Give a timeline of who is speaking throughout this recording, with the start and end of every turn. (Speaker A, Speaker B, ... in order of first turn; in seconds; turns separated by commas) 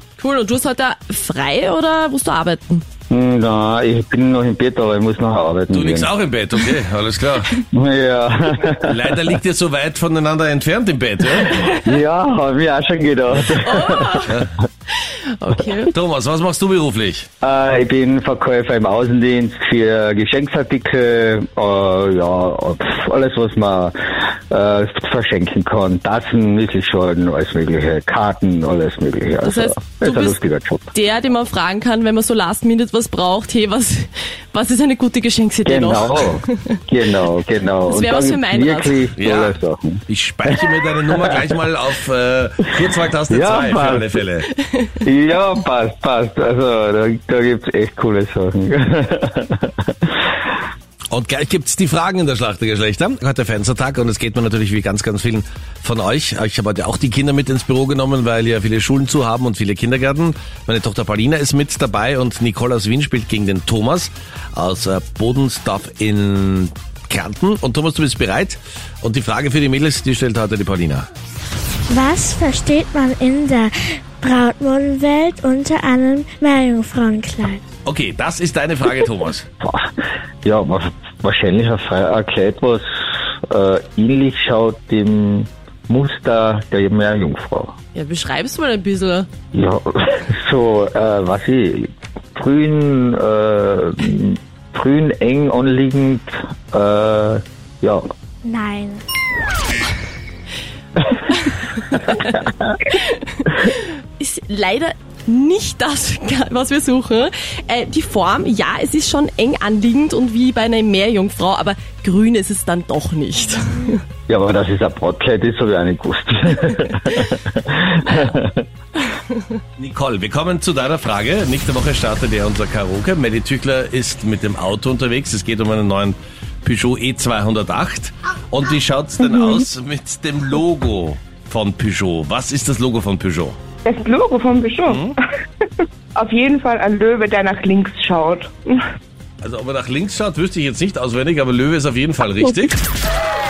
Speaker A: 0.2-2.8, Speaker B: 3.1-6.1, Speaker C: 5.7-7.5, Speaker B: 7.6-9.2, Speaker C: 8.8-11.7, Speaker B: 11.6-14.4, Speaker A: 13.6-14.3, Speaker A: 15.3-15.9, Speaker C: 15.9-17.3, Speaker B: 17.4-30.9, Speaker A: 29.4-30.4, Speaker A: 30.9-36.8, Speaker B: 35.6-40.0, Speaker A: 37.9-39.1, Speaker C: 39.2-39.6, Speaker C: 40.1-44.5, Speaker B: 41.1-41.5, Speaker B: 43.3-44.1, Speaker B: 45.0-49.9, Speaker C: 51.1-71.1, Speaker D: 71.9-77.6, Speaker C: 77.8-79.5, Speaker B: 79.6-79.9, Speaker B: 80.4-87.7, Speaker A: 87.9-89.3, Speaker B: 89.5-98.0, Speaker D: 98.4-99.0, Speaker A: 101.3-114.0, Speaker B: 114.3-118.7, Speaker C: 119.8-133.6, Speaker E: 133.8-138.8, Speaker C: 134.8-135.1, Speaker C: 139.4-142.8